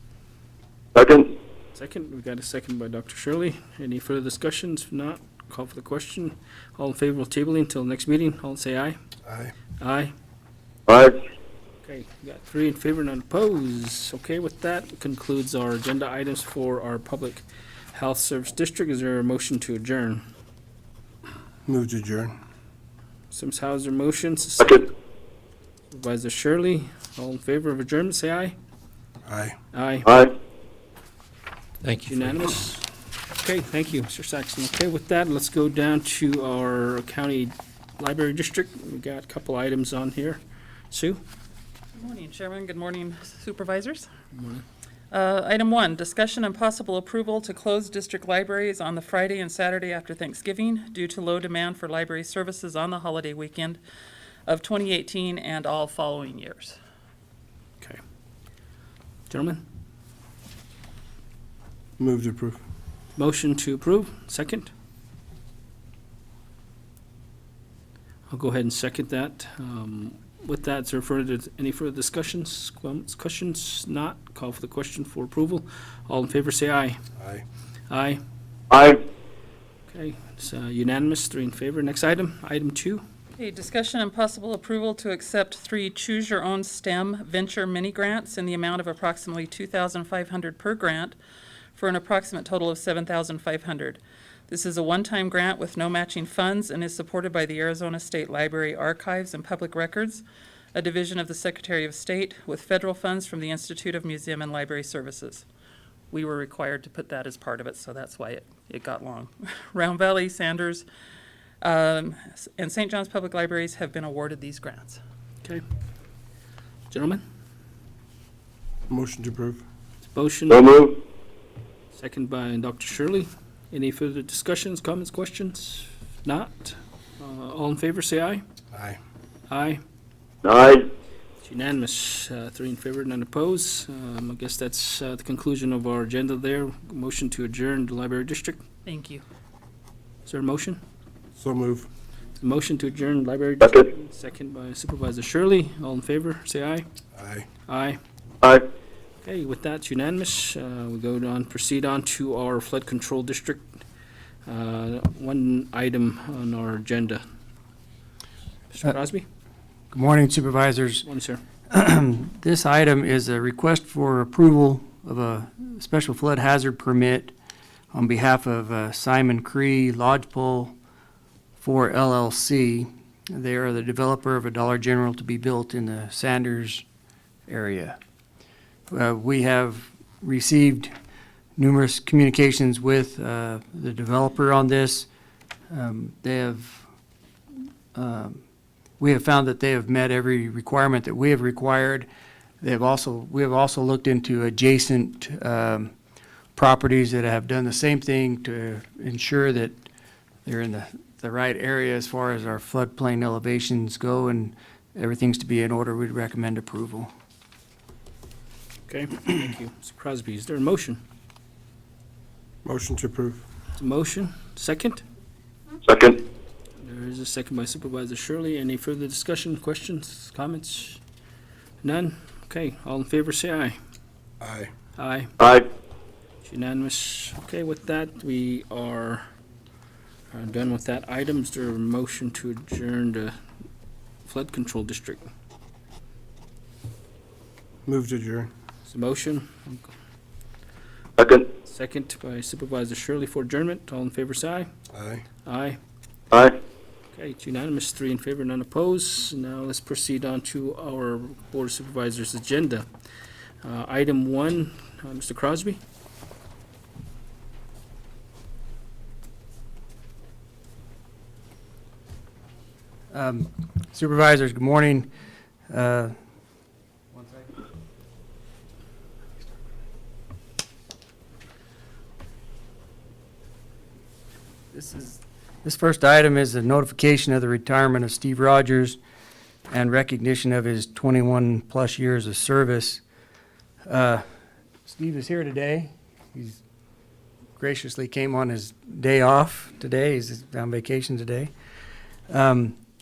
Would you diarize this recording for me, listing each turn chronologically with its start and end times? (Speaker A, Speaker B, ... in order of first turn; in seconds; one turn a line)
Speaker A: 0.9-1.3
Speaker B: 1.7-9.0
Speaker C: 9.2-9.5
Speaker B: 9.8-10.1
Speaker A: 10.9-11.2
Speaker B: 11.8-20.2
Speaker C: 21.6-22.3
Speaker B: 23.3-24.9
Speaker B: 25.9-28.6
Speaker C: 29.2-29.5
Speaker B: 29.7-30.2
Speaker A: 30.1-30.3
Speaker B: 32.0-32.9
Speaker B: 33.4-40.4
Speaker B: 40.9-41.2
Speaker D: 41.9-44.1
Speaker B: 44.3-44.6
Speaker D: 45.1-53.8
Speaker D: 54.5-56.8
Speaker B: 59.3-59.6
Speaker C: 62.0-62.6
Speaker B: 63.2-64.7
Speaker B: 68.3-77.0
Speaker C: 77.2-77.4
Speaker B: 77.9-78.2
Speaker A: 78.7-79.0
Speaker B: 79.9-83.0
Speaker D: 83.4-91.2
Speaker D: 91.7-105.5
Speaker D: 106.1-110.8
Speaker D: 111.6-115.0
Speaker B: 116.9-117.2
Speaker C: 118.9-119.6
Speaker B: 120.0-120.8
Speaker A: 120.5-121.0
Speaker B: 121.9-128.4
Speaker C: 128.7-129.0
Speaker B: 129.5-129.8
Speaker A: 130.4-130.8
Speaker B: 131.4-138.6
Speaker D: 138.8-139.2
Speaker B: 140.2-140.8
Speaker C: 141.3-141.9
Speaker B: 142.4-146.8
Speaker C: 147.1-147.5
Speaker B: 147.7-148.0
Speaker B: 149.2-153.7
Speaker B: 154.4-157.2
Speaker B: 158.7-159.2
Speaker E: 159.9-161.1
Speaker B: 161.0-161.4
Speaker E: 161.7-167.3
Speaker E: 167.9-170.7
Speaker E: 171.6-176.8
Speaker E: 177.5-178.0
Speaker E: 178.9-180.9
Speaker E: 181.6-185.1
Speaker E: 185.7-186.8
Speaker E: 187.9-188.4
Speaker E: 189.0-192.1
Speaker E: 192.6-195.9
Speaker E: 196.6-199.8
Speaker E: 200.4-207.1
Speaker B: 208.9-211.0
Speaker C: 212.6-213.4
Speaker B: 213.8-215.0
Speaker A: 215.8-216.2
Speaker B: 216.8-221.0
Speaker B: 221.8-223.8
Speaker C: 224.4-224.7
Speaker B: 225.0-225.3
Speaker A: 225.4-225.7
Speaker B: 226.4-229.2
Speaker B: 230.3-233.3
Speaker B: 234.2-235.3
Speaker C: 237.8-238.5
Speaker B: 238.8-239.9
Speaker A: 241.2-241.5
Speaker B: 241.6-244.7
Speaker C: 244.9-245.2
Speaker B: 245.4-245.8
Speaker A: 246.3-246.6
Speaker B: 247.1-252.8
Speaker B: 253.6-255.8
Speaker E: 263.1-265.1
Speaker E: 265.7-266.1
Speaker E: 267.1-267.6
Speaker E: 274.7-279.0
Speaker E: 279.7-283.0
Speaker E: 283.9-284.2
Speaker E: 284.8-286.6
Speaker E: 287.6-291.5
Speaker E: 292.3-292.8